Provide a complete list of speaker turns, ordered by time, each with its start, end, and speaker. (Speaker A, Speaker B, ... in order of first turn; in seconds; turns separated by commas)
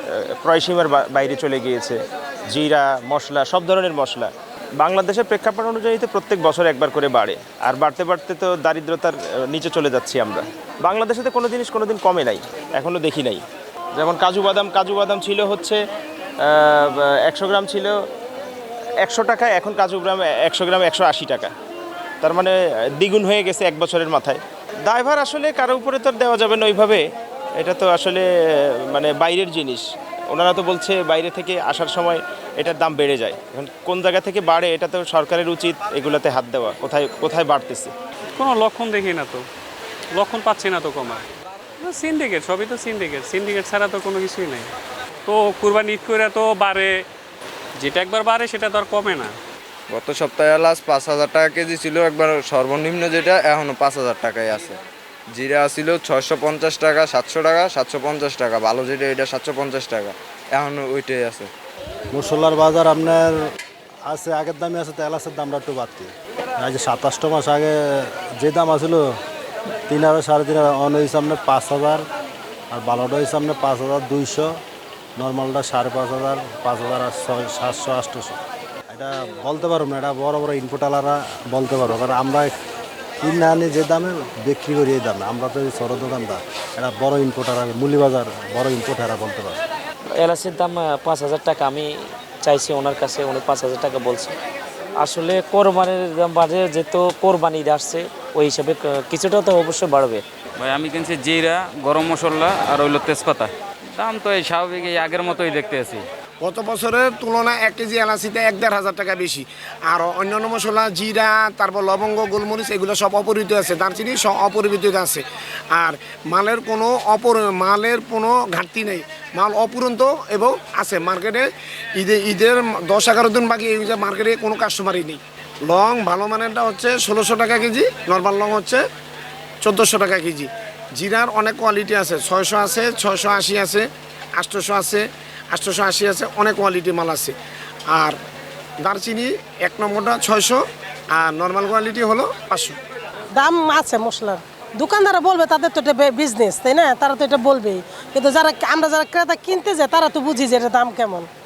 Speaker A: 0.4-2.0, Speaker A: 2.5-13.4, Speaker A: 13.9-15.8, Speaker A: 16.4-17.9, Speaker A: 19.0-21.5, Speaker A: 22.2-27.0, Speaker A: 27.6-28.2, Speaker A: 28.9-37.9, Speaker B: 38.4-39.4, Speaker B: 40.1-41.2, Speaker B: 41.8-44.7, Speaker B: 45.3-47.0, Speaker B: 47.8-49.3, Speaker C: 49.9-54.8, Speaker C: 55.3-61.5, Speaker D: 62.1-63.3, Speaker D: 64.1-69.0, Speaker D: 69.9-72.0, Speaker D: 72.7-74.5, Speaker D: 75.2-78.4, Speaker D: 78.9-82.5, Speaker D: 83.2-89.6, Speaker E: 90.2-94.3, Speaker E: 95.0-100.2, Speaker F: 100.6-106.0, Speaker G: 106.4-128.8, Speaker G: 129.6-137.3, Speaker G: 137.9-138.2, Speaker G: 138.8-140.6, Speaker G: 141.1-142.8, Speaker H: 143.3-151.3